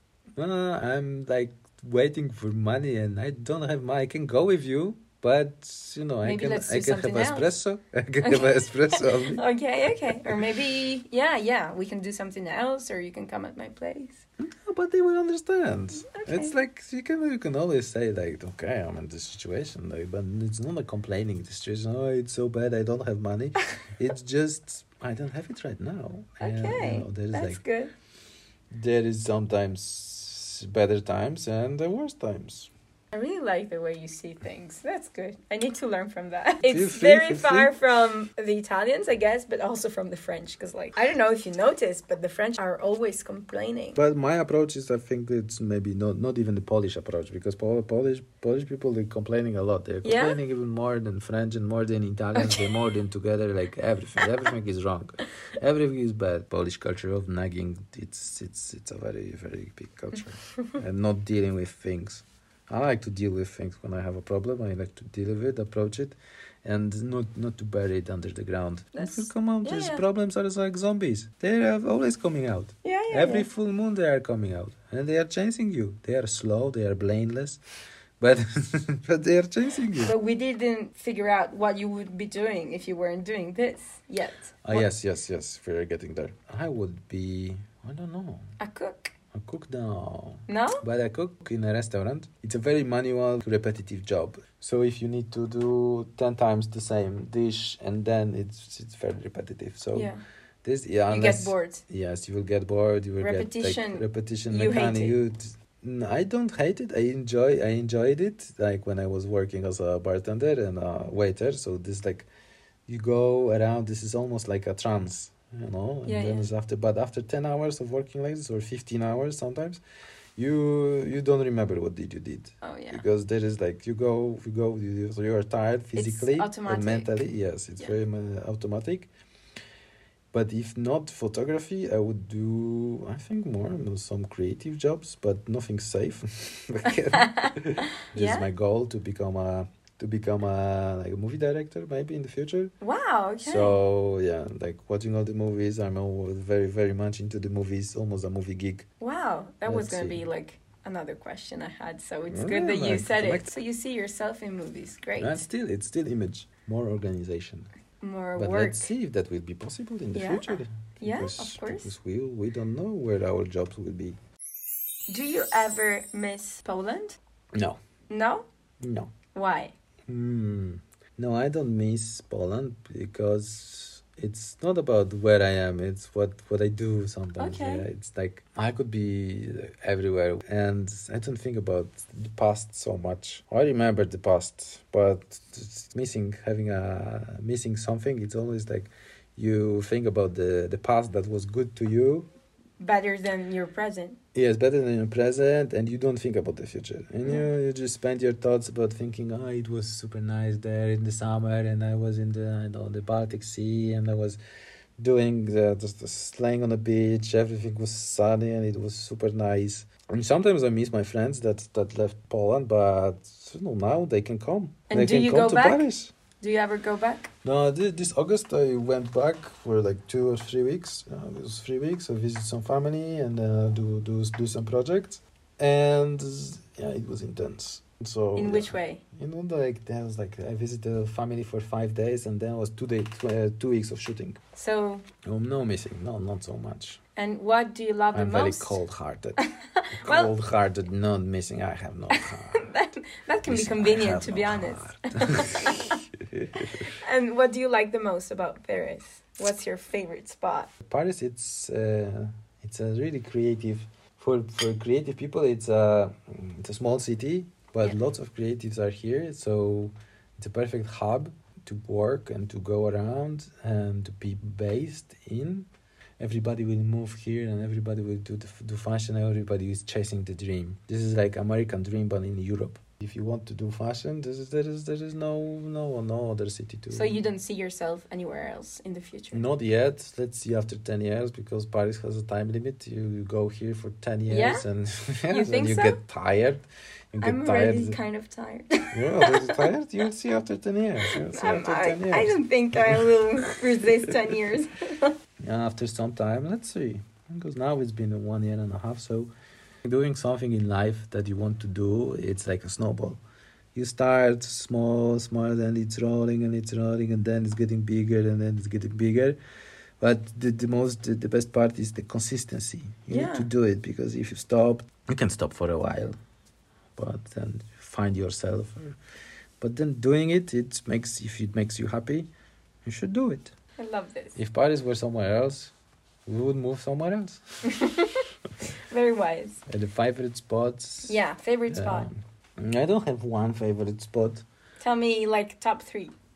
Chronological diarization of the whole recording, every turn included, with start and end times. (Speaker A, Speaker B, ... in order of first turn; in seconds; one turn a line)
Speaker A: 0.4-9.4
Speaker B: 6.2-7.5
Speaker B: 8.2-14.2
Speaker A: 10.1-10.5
Speaker A: 14.4-27.6
Speaker B: 16.1-16.5
Speaker B: 26.4-27.9
Speaker A: 28.7-32.7
Speaker B: 33.1-44.0
Speaker A: 36.7-37.7
Speaker A: 44.0-77.6
Speaker B: 50.0-50.4
Speaker B: 52.4-52.6
Speaker B: 69.0-70.0
Speaker B: 72.8-73.5
Speaker A: 78.2-80.1
Speaker B: 80.0-84.9
Speaker A: 84.6-88.5
Speaker B: 88.6-89.1
Speaker A: 89.3-100.1
Speaker B: 90.5-90.8
Speaker B: 100.0-100.2
Speaker A: 100.6-112.3
Speaker B: 101.1-101.8
Speaker B: 103.2-105.2
Speaker A: 112.9-119.8
Speaker B: 116.1-116.5
Speaker A: 120.4-129.1
Speaker B: 122.6-123.0
Speaker B: 126.0-127.2
Speaker A: 130.3-142.7
Speaker B: 137.1-138.5
Speaker B: 142.8-143.8
Speaker A: 143.4-148.9
Speaker B: 149.0-155.4
Speaker A: 149.6-150.2
Speaker A: 152.3-153.5
Speaker A: 155.2-157.7
Speaker B: 158.0-158.9
Speaker A: 158.4-164.2
Speaker B: 160.1-161.9
Speaker B: 165.1-167.2
Speaker A: 167.5-167.8
Speaker B: 168.1-168.5
Speaker A: 168.8-169.1
Speaker B: 169.3-169.8
Speaker A: 170.1-192.3
Speaker B: 177.4-177.9
Speaker B: 192.8-194.2
Speaker A: 194.3-204.4
Speaker A: 205.0-216.1
Speaker B: 214.9-215.9
Speaker B: 216.4-217.3
Speaker A: 217.4-234.4
Speaker B: 228.4-229.0
Speaker B: 234.6-235.1
Speaker A: 235.2-237.0
Speaker B: 237.2-238.8
Speaker A: 238.1-239.4
Speaker B: 239.4-240.3
Speaker A: 240.0-242.7
Speaker B: 242.1-246.0
Speaker A: 243.5-246.9
Speaker B: 246.7-250.7
Speaker A: 250.8-265.7
Speaker A: 266.2-277.2
Speaker B: 276.9-279.5
Speaker A: 279.3-288.0
Speaker B: 284.3-284.7
Speaker B: 285.3-286.0
Speaker B: 287.2-289.7
Speaker A: 288.9-293.5
Speaker B: 291.1-295.2
Speaker A: 295.4-299.3
Speaker A: 299.8-303.2
Speaker A: 303.7-309.4
Speaker A: 310.0-316.1
Speaker B: 313.1-313.5
Speaker A: 317.0-319.0
Speaker A: 319.6-322.3
Speaker A: 322.9-323.5
Speaker B: 323.8-324.4
Speaker A: 324.4-325.7
Speaker A: 326.3-327.7
Speaker B: 327.6-329.6
Speaker A: 329.7-334.4
Speaker B: 331.1-332.1
Speaker B: 334.8-336.1